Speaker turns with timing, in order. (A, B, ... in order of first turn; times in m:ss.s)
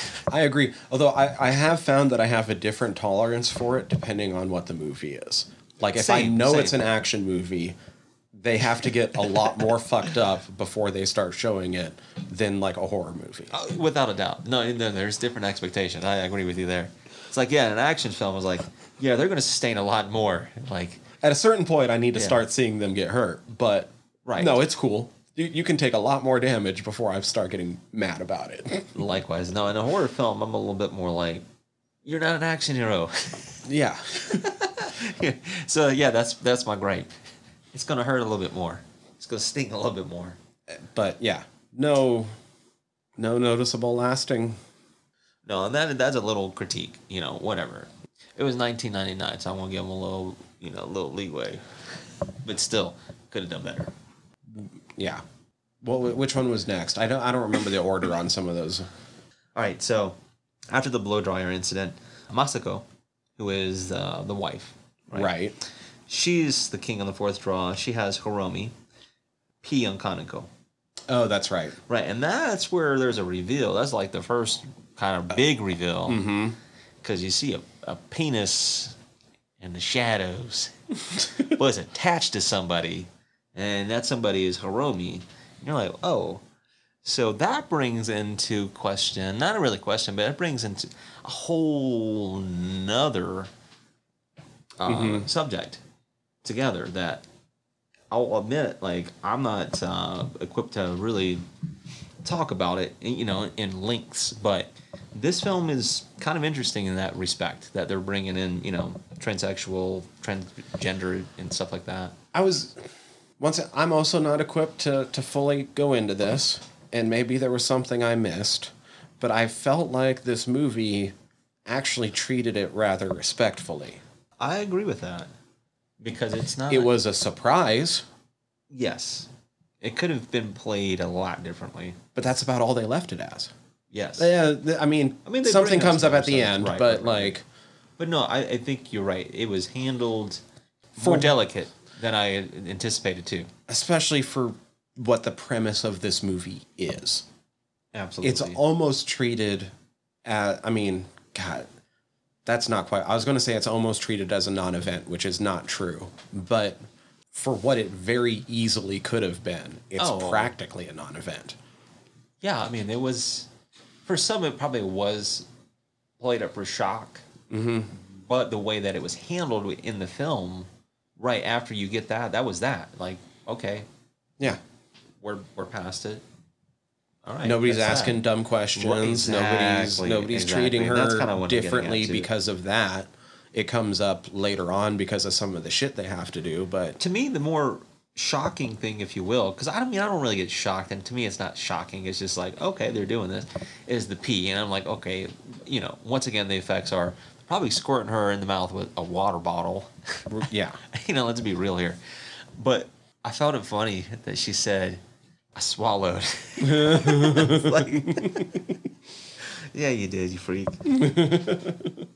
0:00.3-0:07.8 A
0:05.9-0:06.8 B
0:08.3-0:13.5 A
0:13.5-0:21.0 B
0:21.2-0:28.9 A
0:22.2-0:22.4 B
0:24.2-0:24.6 B
0:28.9-0:31.4 B
0:32.0-0:37.1 B
0:33.7-0:34.4 A
0:37.7-0:40.4 B
0:40.7-0:42.3 A
0:43.2-0:44.6 A
0:45.5-0:53.9 B
0:54.5-0:55.2 A
0:55.8-0:58.9 A
0:59.6-1:00.2 B
1:00.7-1:02.8 B
1:03.4-1:05.3 B
1:05.1-1:05.6 A
1:06.1-1:08.7 B
1:09.6-1:10.5 B
1:11.1-1:11.8 A
1:11.9-1:16.2 B
1:16.1-1:16.6 A
1:17.0-1:19.0 B
1:19.6-1:26.4 B
1:27.0-1:33.5 B
1:34.8-1:35.8 B
1:34.9-1:35.3 A
1:36.4-1:37.2 B
1:38.1-1:41.4 B
1:42.2-1:52.2 B
1:52.3-1:52.8 A
1:53.4-2:01.1 A
2:01.7-2:04.0 A
2:04.4-2:05.3 B
2:06.0-2:06.9 B
2:06.7-2:08.1 A
2:08.7-2:09.3 B
2:09.8-2:12.0 B
2:12.2-2:13.5 A
2:13.9-2:14.3 B
2:14.2-2:17.4 A
2:15.2-2:17.4 B
2:18.0-2:20.4 B
2:21.0-2:23.5 B
2:21.0-2:21.3 A
2:23.7-2:27.3 A
2:27.9-2:28.6 B
2:28.2-2:29.7 A
2:30.2-2:31.7 A
2:32.5-2:36.8 A
2:37.3-2:41.6 A
2:40.0-2:40.5 B
2:42.4-2:43.5 B
2:44.1-2:45.5 B
2:46.2-2:47.2 B
2:47.5-2:47.9 A
2:47.9-2:53.9 B
2:55.2-2:56.2 B
2:57.2-2:58.2 B
2:57.4-3:07.0 A
2:58.8-3:02.3 B
3:07.0-3:20.4 B
3:20.3-3:20.8 A
3:20.9-3:25.0 B
3:25.6-3:28.7 B
3:26.6-3:28.5 A
3:29.4-3:31.0 B
3:30.9-3:32.0 A